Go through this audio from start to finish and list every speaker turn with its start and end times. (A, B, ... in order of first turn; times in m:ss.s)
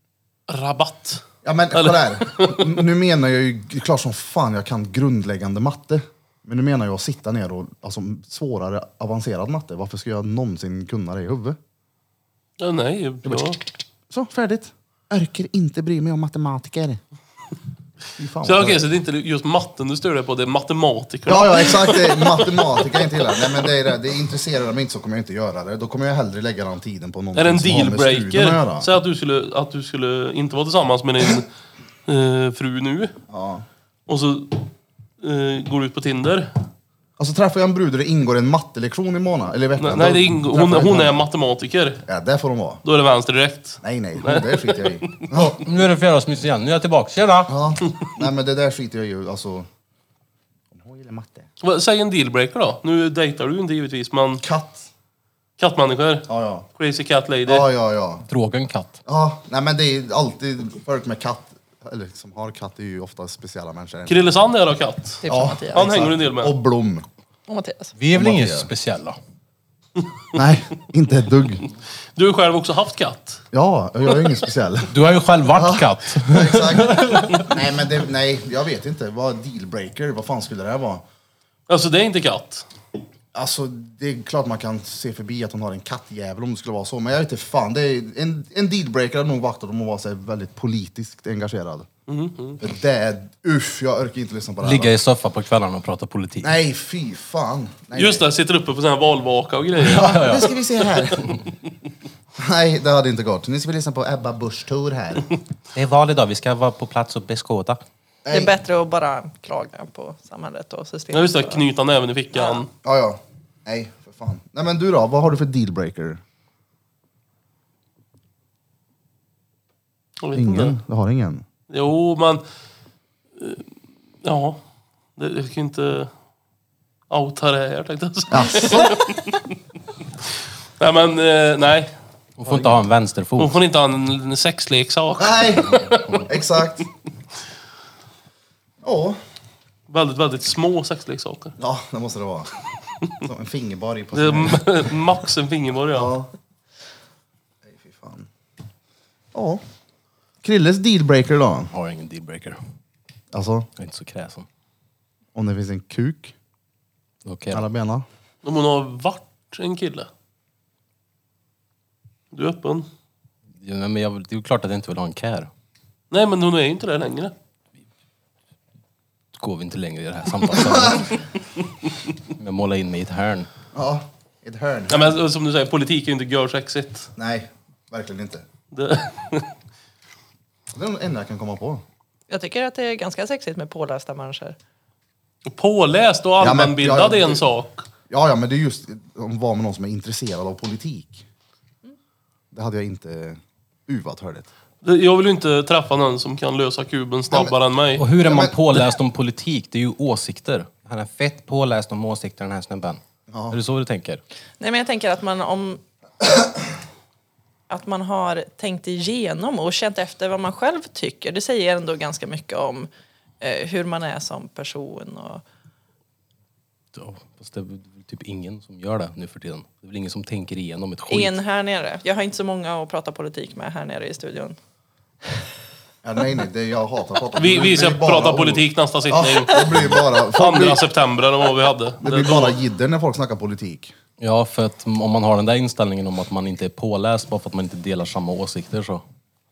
0:00.5-0:01.2 A
0:01.4-0:11.6 B
0:01.7-0:02.8 A
0:12.6-0:13.6 A
0:14.1-0:17.0 B
0:18.2-0:18.8 B
0:18.4-0:23.4 A
0:21.2-0:28.9 B
0:27.4-0:31.5 A
0:32.0-0:33.1 A
0:33.3-0:33.6 B
0:34.1-0:36.5 A
0:37.2-0:41.2 B
0:39.8-0:42.0 A
0:42.1-0:42.8 B
0:42.8-0:45.5 A
0:43.8-0:45.6 B
0:45.4-0:47.5 C
0:47.5-0:49.7 B
0:50.7-0:51.5 B
0:51.6-0:54.4 A
0:54.4-0:54.9 B
0:55.6-0:57.7 A
0:56.3-0:56.7 B
0:57.4-0:58.2 B
0:58.3-0:59.0 C
0:59.0-1:04.2 B
1:04.1-1:05.2 A
1:05.2-1:05.8 D
1:05.3-1:07.0 B
1:05.7-1:06.5 A
1:07.5-1:07.9 D
1:08.0-1:09.2 C
1:08.1-1:08.7 B
1:10.3-1:11.6 B
1:12.2-1:13.4 A
1:13.5-1:14.9 B
1:14.9-1:17.4 C
1:15.5-1:21.0 B
1:21.7-1:22.7 A
1:23.3-1:31.9 B
1:32.1-1:32.6 A
1:32.6-1:34.9 B
1:34.6-1:36.5 C
1:36.4-1:38.2 B
1:37.9-1:41.1 A
1:39.8-1:40.5 C
1:39.8-1:41.3 B
1:42.4-1:45.3 B
1:45.7-1:47.8 C
1:48.2-1:48.5 B
1:48.3-1:51.6 D
1:51.1-1:52.7 A
1:52.3-1:52.6 D
1:52.8-1:56.2 B
2:00.2-2:00.7 A
2:00.3-2:01.4 B
2:01.7-2:02.4 A
2:03.4-2:04.6 A
2:05.2-2:06.1 A
2:07.1-2:09.4 A
2:08.3-2:09.0 B
2:10.8-2:11.9 A
2:12.4-2:13.6 C
2:12.4-2:12.8 B
2:13.4-2:16.2 A
2:15.2-2:16.8 B
2:18.8-2:19.2 B
2:19.9-2:21.5 A
2:21.6-2:22.5 B
2:23.2-2:24.9 B
2:24.1-2:26.1 A
2:25.9-2:26.3 B
2:27.6-2:28.3 B
2:29.3-2:29.6 B
2:30.4-2:31.7 B
2:31.7-2:32.6 C
2:33.3-2:33.7 B
2:33.8-2:34.5 C
2:35.3-2:36.3 B
2:37.2-2:37.6 C
2:37.5-2:38.0 B
2:38.4-2:40.1 A
2:42.3-2:42.9 A
2:43.6-2:45.5 C
2:46.1-2:47.3 A
2:49.4-2:51.2 C
2:50.5-2:51.0 B
2:52.3-2:53.5 C
2:53.7-2:55.2 B
2:54.9-2:57.1 A
2:57.2-2:58.4 B
2:58.7-2:59.5 A
3:00.7-3:01.8 B
3:02.3-3:04.6 D
3:05.5-3:07.8 A
3:06.4-3:07.4 B
3:08.1-3:11.2 B
3:12.5-3:14.5 B
3:14.8-3:18.0 A
3:18.0-3:24.2 C
3:18.2-3:18.6 B
3:23.3-3:23.6 B
3:24.6-3:25.8 D
3:27.7-3:32.9 D
3:33.4-3:35.4 D
3:36.9-3:41.3 C
3:41.1-3:44.6 D
3:46.0-3:50.8 B
3:47.4-3:49.8 A
3:50.3-3:52.6 A
3:52.0-3:53.9 B
3:54.2-3:59.0 C